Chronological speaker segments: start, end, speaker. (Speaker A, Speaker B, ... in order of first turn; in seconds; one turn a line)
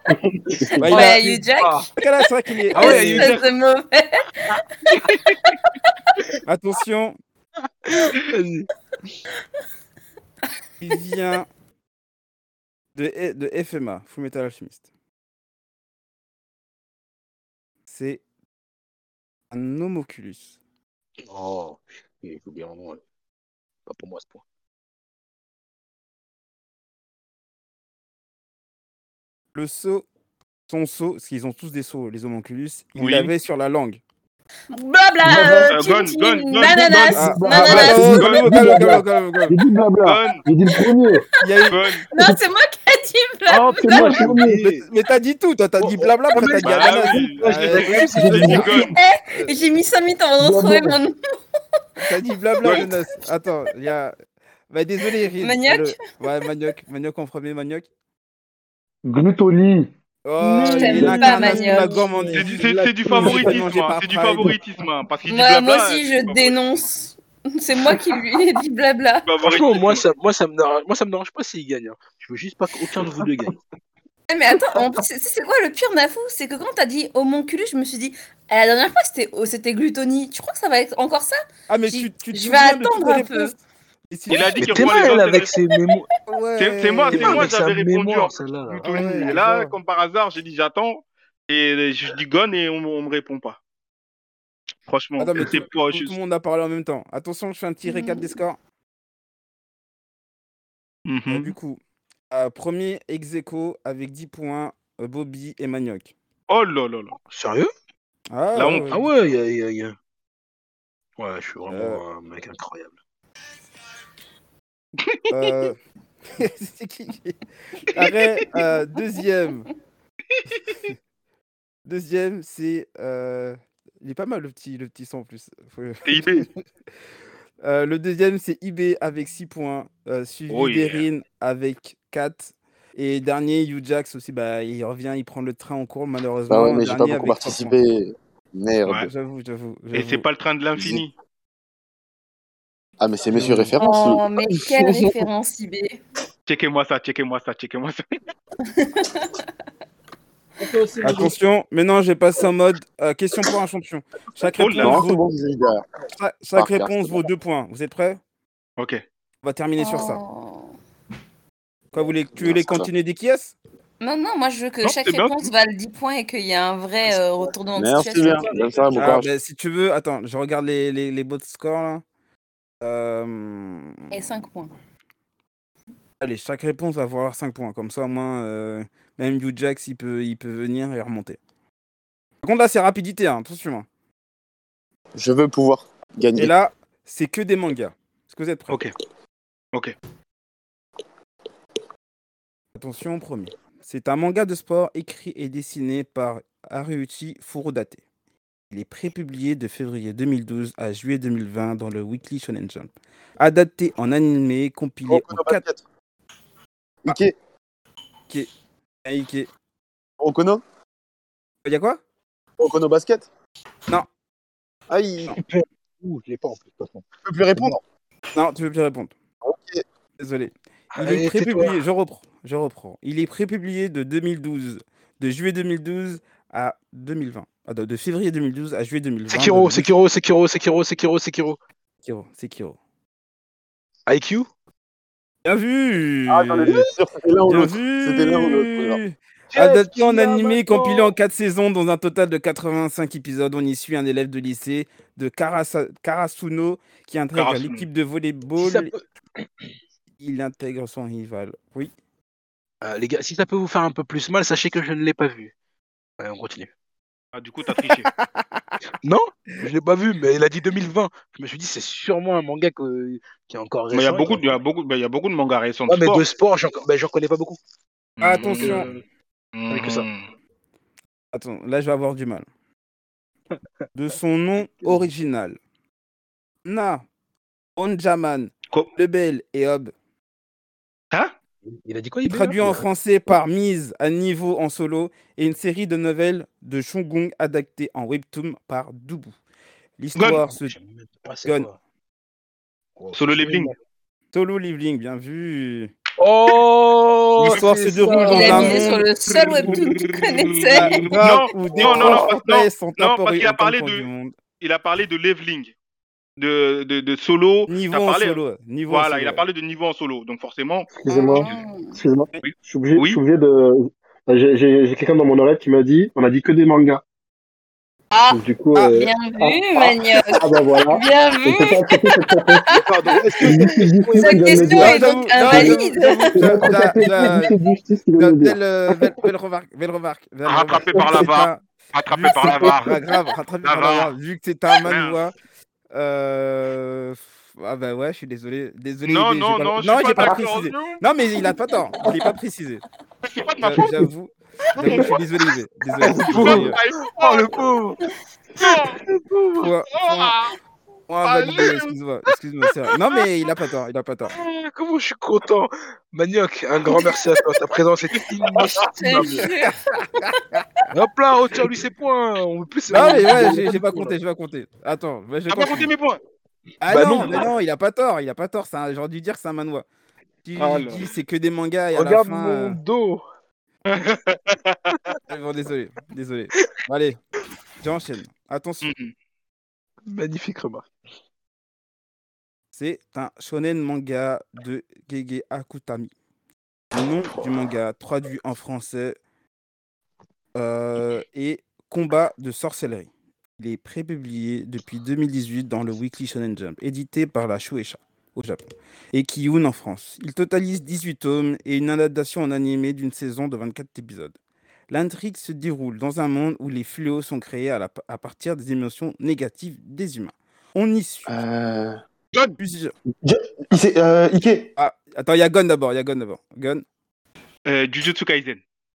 Speaker A: 0.1-0.9
Speaker B: 0.8-1.3
Speaker C: 0.8-1.9
Speaker D: 0.9-1.9
Speaker B: 2.0-3.4
Speaker C: 2.7-4.6
Speaker D: 2.8-3.5
Speaker B: 6.5-7.2
Speaker D: 7.8-8.7
Speaker B: 10.8-11.5
Speaker B: 13.0-14.8
Speaker B: 17.9-18.2
Speaker B: 19.5-20.6
Speaker D: 21.2-23.0
Speaker D: 23.9-24.4
Speaker B: 29.5-30.1
Speaker B: 30.7-34.0
Speaker E: 33.0-33.3
Speaker C: 34.7-38.4
Speaker A: 35.2-35.7
Speaker E: 35.7-38.8
Speaker A: 37.1-41.3
Speaker B: 37.1-39.6
Speaker E: 40.0-40.4
Speaker B: 41.4-41.8
Speaker C: 41.5-44.2
Speaker E: 41.7-42.0
Speaker D: 43.5-44.9
Speaker A: 43.6-44.7
Speaker B: 44.6-49.5
Speaker D: 45.8-49.0
Speaker E: 46.6-48.9
Speaker C: 48.8-51.2
Speaker A: 50.4-51.0
Speaker B: 52.0-54.2
Speaker E: 52.6-52.9
Speaker B: 54.7-57.9
Speaker C: 55.4-56.0
Speaker A: 59.0-59.9
Speaker B: 60.2-64.6
Speaker A: 60.4-62.2
Speaker C: 60.7-62.1
Speaker E: 62.3-66.6
Speaker A: 63.1-63.6
Speaker C: 65.3-69.3
Speaker E: 69.3-70.0
Speaker D: 69.4-73.6
Speaker C: 74.3-83.5
Speaker B: 81.7-83.6
Speaker B: 84.1-85.1
Speaker E: 84.3-85.5
Speaker D: 84.6-86.1
Speaker B: 86.3-87.5
Speaker E: 86.6-93.6
Speaker D: 87.1-89.4
Speaker B: 88.8-89.8
Speaker E: 94.9-96.2
Speaker B: 95.2-98.6
Speaker C: 97.8-98.3
Speaker E: 101.1-101.5
Speaker B: 101.3-101.8
Speaker B: 102.3-106.1
Speaker E: 106.5-107.2
Speaker D: 107.3-107.7
Speaker B: 108.3-109.0
Speaker E: 108.5-109.0
Speaker D: 108.9-110.0
Speaker D: 111.2-113.0
Speaker B: 111.7-112.0
Speaker B: 115.3-115.8
Speaker B: 116.3-117.4
Speaker B: 117.9-119.7
Speaker B: 121.9-126.4
Speaker E: 126.0-126.5
Speaker B: 127.6-137.8
Speaker E: 130.5-131.1
Speaker F: 136.5-139.1
Speaker B: 138.9-140.3
Speaker E: 139.9-141.1
Speaker F: 143.0-145.2
Speaker B: 143.3-143.7
Speaker C: 143.8-146.0
Speaker E: 146.5-148.0
Speaker C: 148.6-149.4
Speaker D: 150.6-151.3
Speaker B: 151.0-155.2
Speaker E: 154.6-155.0
Speaker F: 154.8-155.9
Speaker B: 156.1-158.2
Speaker F: 156.6-157.3
Speaker B: 159.4-160.2
Speaker C: 159.8-160.7
Speaker B: 161.9-163.6
Speaker F: 162.4-162.9
Speaker C: 164.0-168.6
Speaker E: 164.8-165.5
Speaker F: 167.7-169.3
Speaker D: 168.3-168.7
Speaker B: 168.9-172.0
Speaker B: 172.8-174.1
Speaker C: 174.1-174.7
Speaker B: 176.2-181.4
Speaker B: 182.4-183.9
Speaker F: 185.2-186.5
Speaker B: 186.4-188.8
Speaker B: 192.8-198.0
Speaker B: 198.7-205.6
Speaker F: 205.1-205.8
Speaker F: 207.1-207.3
Speaker B: 209.1-209.5
Speaker F: 210.2-210.6
Speaker B: 211.6-212.0
Speaker F: 212.6-213.3
Speaker F: 214.9-215.4
Speaker D: 215.3-217.0
Speaker F: 217.2-217.8
Speaker B: 218.3-219.1
Speaker F: 219.4-219.8
Speaker B: 220.2-229.9
Speaker D: 220.9-221.8
Speaker D: 229.3-231.6
Speaker B: 232.0-232.8
Speaker D: 234.1-234.5
Speaker B: 235.4-236.9
Speaker F: 236.3-239.0
Speaker B: 237.5-248.9
Speaker D: 239.5-241.1
Speaker E: 247.3-247.9
Speaker D: 248.6-249.0
Speaker B: 250.2-251.9
Speaker D: 252.8-255.5
Speaker D: 256.2-256.7
Speaker E: 257.3-258.1
Speaker B: 258.2-258.7
Speaker D: 259.0-264.6
Speaker E: 263.9-266.2
Speaker D: 265.9-267.6
Speaker E: 268.2-268.9
Speaker B: 268.2-268.9
Speaker D: 268.6-269.0
Speaker E: 269.6-270.3
Speaker D: 269.7-270.1
Speaker B: 271.3-272.5
Speaker B: 273.9-275.6
Speaker B: 276.6-277.0
Speaker B: 277.8-279.9
Speaker D: 281.7-282.9
Speaker B: 282.3-289.3
Speaker B: 290.0-290.8
Speaker E: 290.2-290.4
Speaker D: 290.2-291.8
Speaker D: 293.0-293.8
Speaker E: 293.1-293.7
Speaker B: 294.3-295.9
Speaker D: 296.2-298.9
Speaker B: 297.4-299.1
Speaker C: 298.0-301.1
Speaker E: 299.3-304.1
Speaker D: 299.6-299.9
Speaker B: 300.7-304.4
Speaker D: 301.6-302.2
Speaker E: 304.6-305.7
Speaker E: 306.4-311.6
Speaker B: 307.7-309.4
Speaker A: 311.0-317.0
Speaker C: 311.1-312.0
Speaker E: 312.4-313.2
Speaker C: 318.1-322.0
Speaker A: 318.3-322.7
Speaker C: 322.6-327.1
Speaker D: 322.8-324.9
Speaker A: 323.4-329.3
Speaker B: 324.8-327.6
Speaker B: 328.2-335.3
Speaker E: 330.5-333.0
Speaker A: 330.9-331.3
Speaker A: 332.5-332.8
Speaker E: 333.6-334.1
Speaker E: 334.9-335.2
Speaker B: 335.9-342.8
Speaker E: 339.1-341.0
Speaker C: 341.7-342.1
Speaker E: 343.3-344.0
Speaker B: 343.6-346.8
Speaker E: 344.8-345.2
Speaker D: 344.9-345.1
Speaker D: 346.0-348.0
Speaker E: 346.2-347.8
Speaker E: 348.6-349.0
Speaker D: 348.6-349.7
Speaker B: 349.6-350.4
Speaker E: 349.9-350.5
Speaker B: 351.1-354.4
Speaker E: 351.2-351.9
Speaker D: 354.3-359.5
Speaker E: 358.6-359.3
Speaker C: 358.9-360.4
Speaker B: 359.2-360.8
Speaker D: 360.9-364.2
Speaker B: 362.9-365.9
Speaker E: 365.5-366.2
Speaker B: 366.8-369.9
Speaker D: 366.9-367.5
Speaker B: 370.4-372.8
Speaker E: 370.6-371.1
Speaker D: 371.9-373.2
Speaker E: 373.9-374.9
Speaker B: 375.3-377.2
Speaker B: 377.8-378.9
Speaker E: 378.8-379.1
Speaker D: 380.1-380.9
Speaker B: 382.7-386.1
Speaker B: 386.9-389.2
Speaker B: 390.6-404.4
Speaker B: 404.9-411.4
Speaker F: 411.3-412.0
Speaker B: 412.6-412.9
Speaker F: 413.2-414.7
Speaker B: 414.8-416.9
Speaker E: 417.7-418.6